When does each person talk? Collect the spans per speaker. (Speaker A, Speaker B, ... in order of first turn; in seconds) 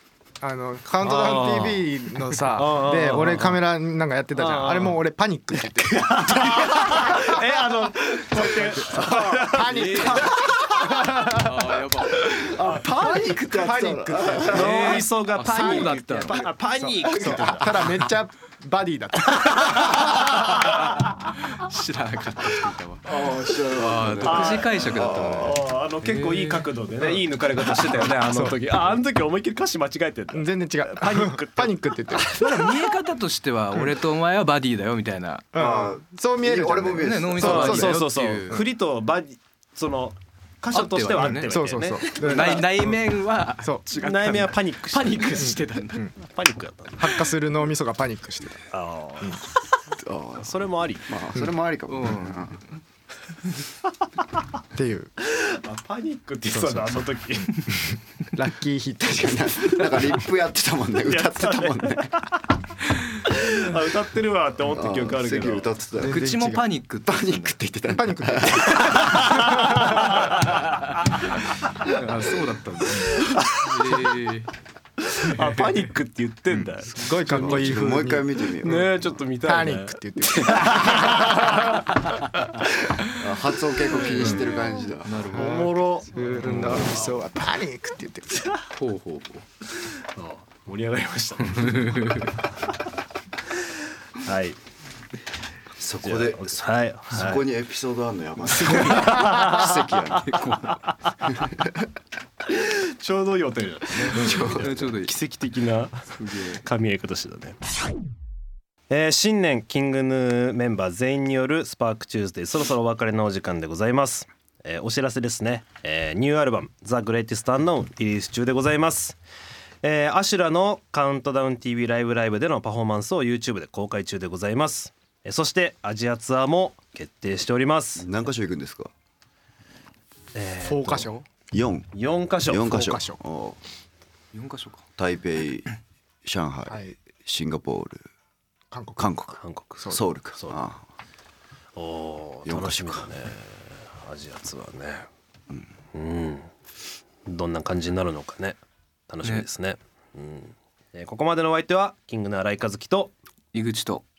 Speaker A: 0.4-7.4, 8.3-11.8, 13.4-15.0, 16.8-20.6, 28.2-28.5, 30.3-32.4, 35.5-38.6, 41.2-43.0, 45.4-46.1, 47.0-48.6, 54.7-55.1, 56.6-59.9, 66.0-66.6, 67.9-70.0, 76.9-78.8, 79.4-81.8, 85.3-88.4, 130.6-131.2, 136.7-136.9, 138.7-139.1
Speaker B: 1.0-3.6, 4.3-5.0, 5.8-10.2, 14.4-17.8, 24.2-32.7, 37.4-42.7, 43.9-45.5, 46.2-47.1, 48.7-51.1, 55.2-57.5, 61.0-62.1, 63.1-65.7, 69.5-70.1, 73.7-74.0, 75.1-76.9, 78.6-81.5, 85.2-86.8, 90.1-92.1, 94.2-94.6, 96.0-97.4, 98.6-99.8, 102.5-107.6, 108.9-119.2, 119.8-128.1, 130.3-131.1, 131.9-133.0, 139.4-140.6, 141.8-145.1, 145.9-146.5, 147.2-153.1
Speaker C: 8.8-9.3, 12.1-14.9, 17.0-17.5, 23.0-25.6, 35.5-37.9, 49.9-52.6, 59.0-62.3, 64.6-66.3, 67.0-69.5, 77.2-79.0, 83.0-85.2, 95.8-100.2, 104.0-104.7, 128.0-128.9, 131.5-131.9, 132.4-133.6, 135.0-135.7, 136.2-138.0, 139.0-140.8, 142.4-143.1
Speaker D: 9.5-12.4, 14.5-16.5, 21.4-23.1, 23.7-26.7, 32.1-35.5, 37.0-38.6, 40.7-46.1, 51.9-52.6, 66.0-67.5, 71.8-74.5, 76.9-77.8, 84.1-84.5, 85.0-85.7, 86.4-86.9, 88.7-89.4, 91.5-92.3, 98.5-100.8, 104.2-105.1, 106.2-106.6, 134.3-134.8, 153.5-154.0